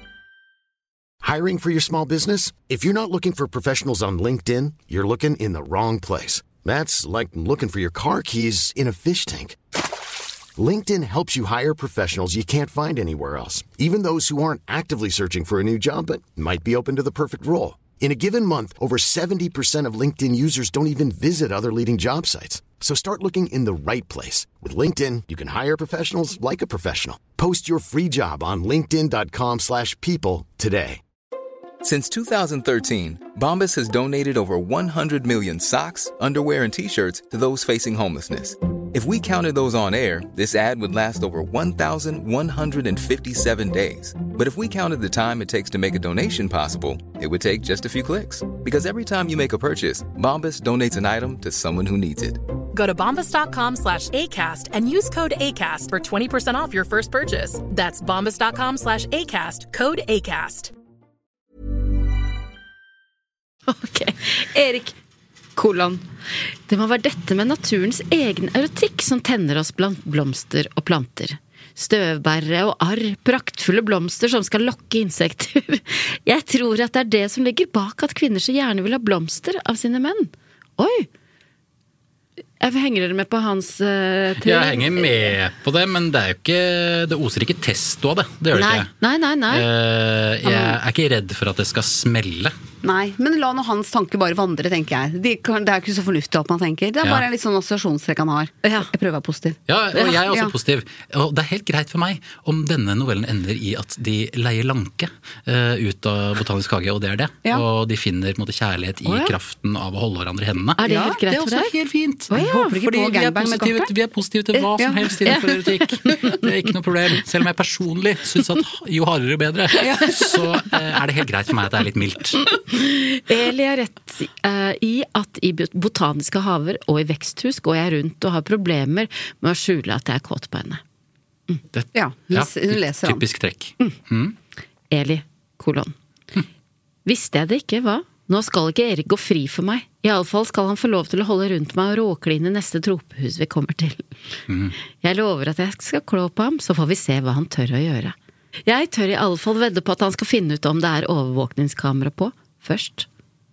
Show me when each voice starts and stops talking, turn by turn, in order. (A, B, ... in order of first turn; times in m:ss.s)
0:01.2-0:09.6 A
0:10.6-0:31.0 A
0:31.8-0:52.4 B
0:52.7-1:00.7 C
1:03.7-1:04.9 D
1:05.6-1:06.0 D
1:06.7-1:21.1 D
1:22.6-1:25.3 D
1:24.4-1:28.9 E
1:28.5-1:29.7 D
1:29.5-1:32.6 E
1:32.8-1:40.5 F
1:38.6-1:38.9 D
1:39.7-2:02.4 E
1:49.1-1:49.3 D
1:50.8-1:51.7 D
1:50.8-1:51.2 F
1:52.3-1:52.6 D
1:52.3-1:53.9 F
1:54.6-1:55.5 F
1:59.8-2:00.2 F
2:02.7-2:10.8 D
2:11.7-2:14.4 E
2:12.0-2:13.2 F
2:14.9-2:15.9 D
2:17.1-2:24.1 D
2:24.5-2:24.8 E
2:25.0-2:28.2 D
2:28.7-2:33.1 D